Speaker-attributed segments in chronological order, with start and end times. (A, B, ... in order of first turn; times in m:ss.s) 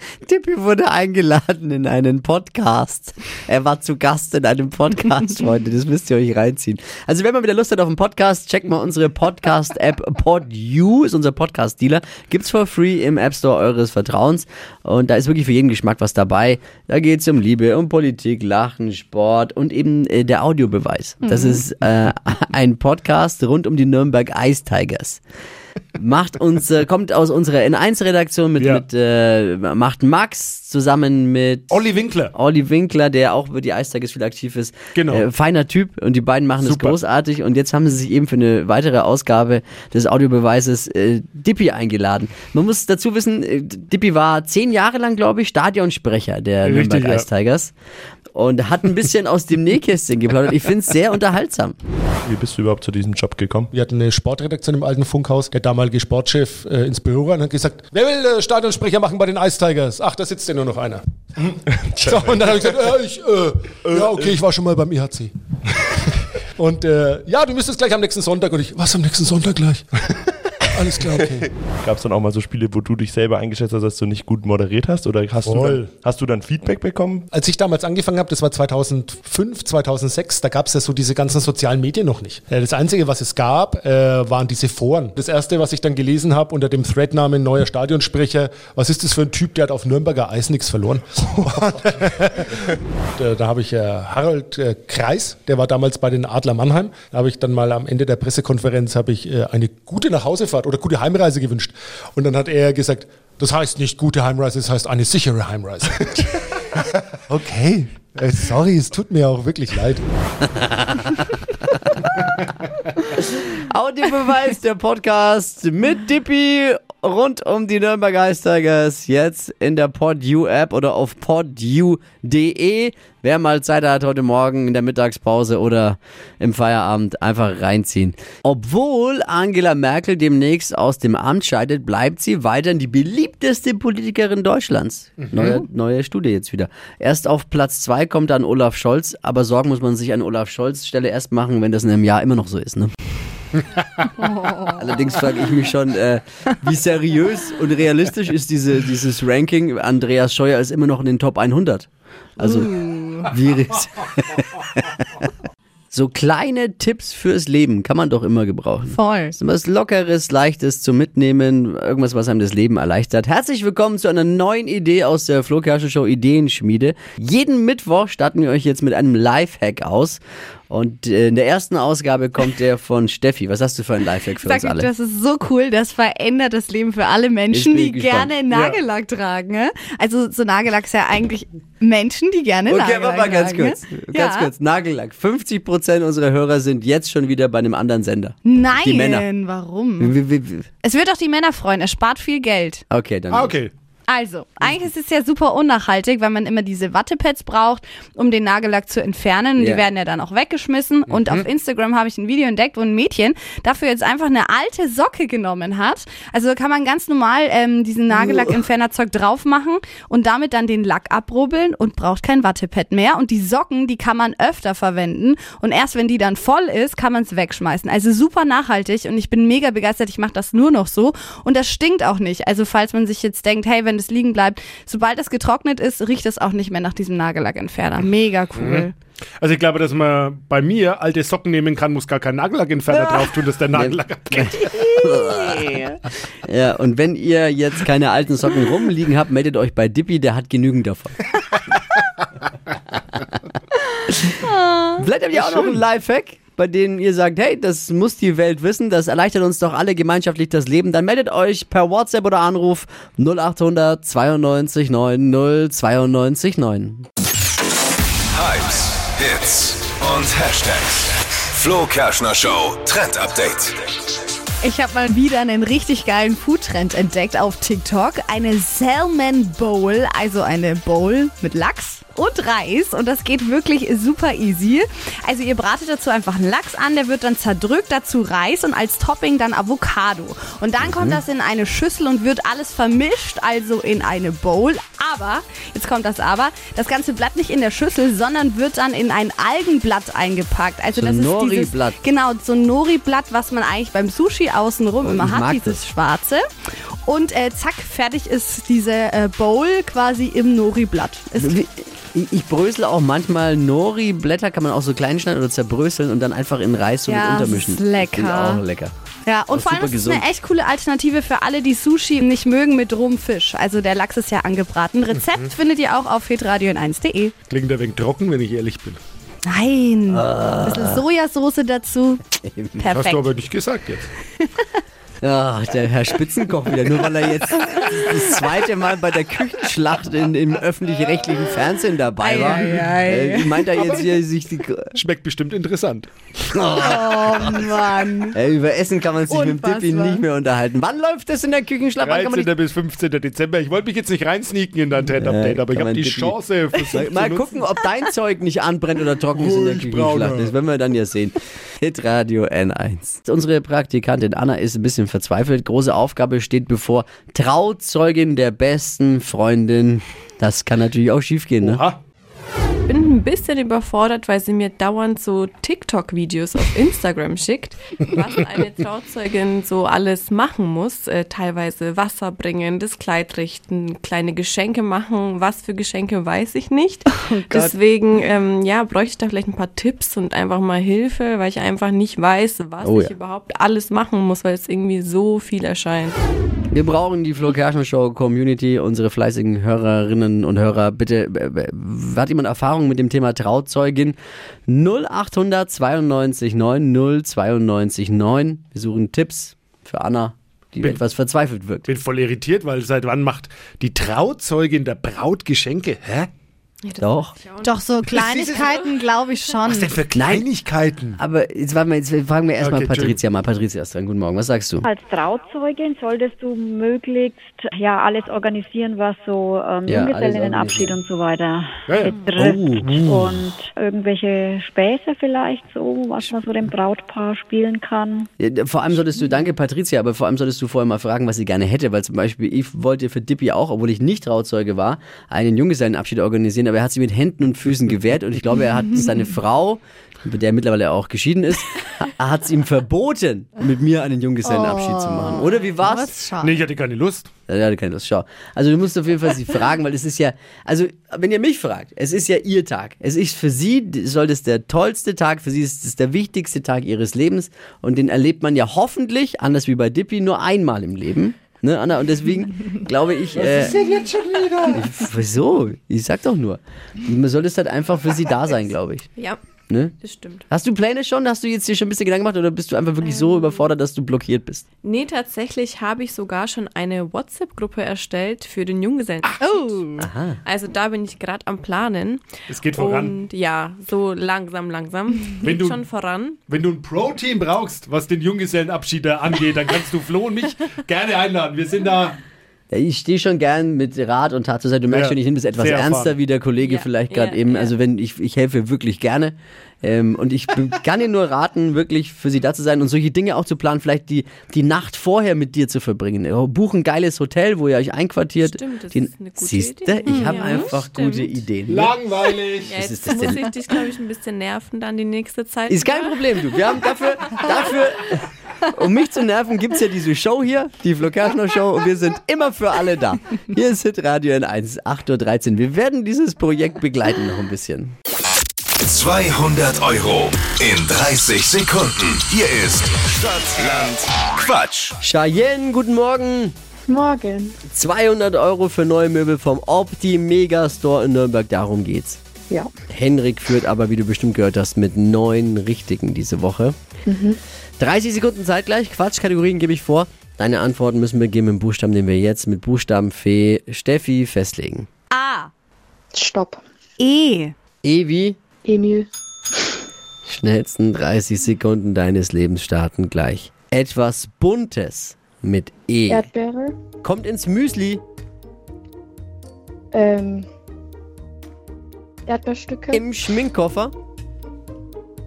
0:00.2-0:25.2 A
0:21.2-0:21.6 B
0:26.0-0:31.8 A
0:31.9-0:32.3 C
0:32.3-0:47.7 A
0:35.0-0:35.2 D
0:36.6-0:37.0 C
0:46.6-0:47.2 C
0:48.4-0:51.8 A
0:52.2-0:53.7 E
0:53.7-1:05.3 D
1:01.8-1:02.8 E
1:03.9-1:04.4 E
1:06.6-1:11.5 D
1:11.2-1:17.3 E
1:15.4-1:16.0 D
1:17.3-1:32.5 D
1:33.2-1:50.0 D
1:53.2-2:22.9 A
2:24.2-2:24.8 B
2:24.7-2:31.9 A
2:32.4-2:35.3 A
2:32.4-2:33.3 B
2:35.9-2:54.9 A
2:38.9-2:39.4 B
2:54.4-3:04.5 B
2:57.5-2:58.3 A
3:02.7-3:09.3 A
3:08.4-3:10.2 B
3:10.0-3:10.7 A
3:10.8-3:12.8 B
3:12.9-3:13.6 A
3:13.3-3:13.7 C
3:14.1-3:48.9 B
3:19.6-3:19.8 A
3:48.6-3:48.8 C
3:49.4-3:54.4 C
3:53.0-3:53.2 B
3:53.7-3:55.9 A
3:54.6-3:56.0 B
3:56.4-4:01.3 A
4:04.3-4:05.0 B
4:05.0-4:17.1 A
4:18.4-4:20.8 F
4:18.7-4:21.6 C
4:21.5-4:23.7 F
4:23.3-4:23.7 C
4:24.6-4:56.4 B
4:40.8-4:41.2 A
4:51.0-4:52.0 A
4:55.0-4:55.8 A
4:57.0-5:01.6 B
5:01.4-5:08.9 A
5:07.1-5:08.6 B
5:09.3-5:17.3 B
5:09.5-5:10.3 A
5:17.5-5:19.0 C
5:19.5-5:22.2 B
5:20.1-5:21.0 A
5:22.4-5:22.8 A
5:22.8-5:23.3 B
5:23.0-5:24.1 C
5:24.4-5:24.7 B
5:25.2-5:34.9 A
5:32.2-5:34.1 B
5:35.1-5:36.1 C
5:36.5-5:37.8 A
5:36.8-5:38.4 B
5:38.3-5:42.5 A
5:39.3-5:40.2 B
5:42.0-5:47.5 C
5:45.2-5:46.4 A
5:46.9-6:01.8 A
5:49.5-5:50.4 C
6:01.7-6:02.0 D
6:02.9-6:26.2 G
6:17.3-6:17.7 B
6:22.8-6:23.1 A
6:26.7-6:41.9 A
6:41.9-6:46.3 C
6:46.8-6:47.8 G
6:47.0-6:47.3 A
6:47.6-6:50.0 B
6:48.2-6:48.5 C
6:49.8-6:51.2 C
6:50.1-6:50.5 A
6:51.2-6:54.9 A
6:52.6-6:53.2 C
6:54.8-7:08.3 H
6:59.9-7:01.0 A
7:02.3-7:03.4 A
7:08.4-7:26.2 A
7:24.4-7:26.6 B
7:26.4-7:27.3 C
7:27.5-7:43.9 A
7:43.5-7:44.8 D
7:44.6-7:49.1 A
7:49.7-7:50.0 A
7:50.0-7:50.4 G
7:50.5-7:54.6 A
7:53.0-7:53.7 G
7:54.8-8:06.4 G
7:59.4-8:00.0 B
8:00.0-8:00.4 A
8:02.5-8:03.1 C
8:05.4-8:05.8 C
8:06.5-8:12.2 C
8:12.7-8:33.4 A
8:14.9-8:16.1 C
8:16.6-8:17.7 G
8:28.4-8:31.4 G
8:30.1-8:30.8 B
8:32.0-8:32.6 C
8:32.6-8:36.8 G
8:35.7-8:47.9 A
8:48.9-8:54.9 F
8:49.8-8:50.5 C
8:53.4-8:54.9 C
8:55.0-8:56.6 A
8:56.9-8:57.6 I
8:57.7-9:02.2 A
9:02.9-9:06.8 A
9:07.1-9:07.4 I
9:07.8-9:14.9 A
9:15.1-9:15.5 B
9:16.1-9:16.6 I
9:17.0-9:17.5 B
9:17.8-9:18.4 A
9:18.6-9:19.1 I
9:20.3-9:26.3 A
9:26.1-9:26.8 I
9:27.0-9:28.0 A
9:29.9-9:30.5 I
9:32.3-9:33.0 I
9:32.9-9:33.9 A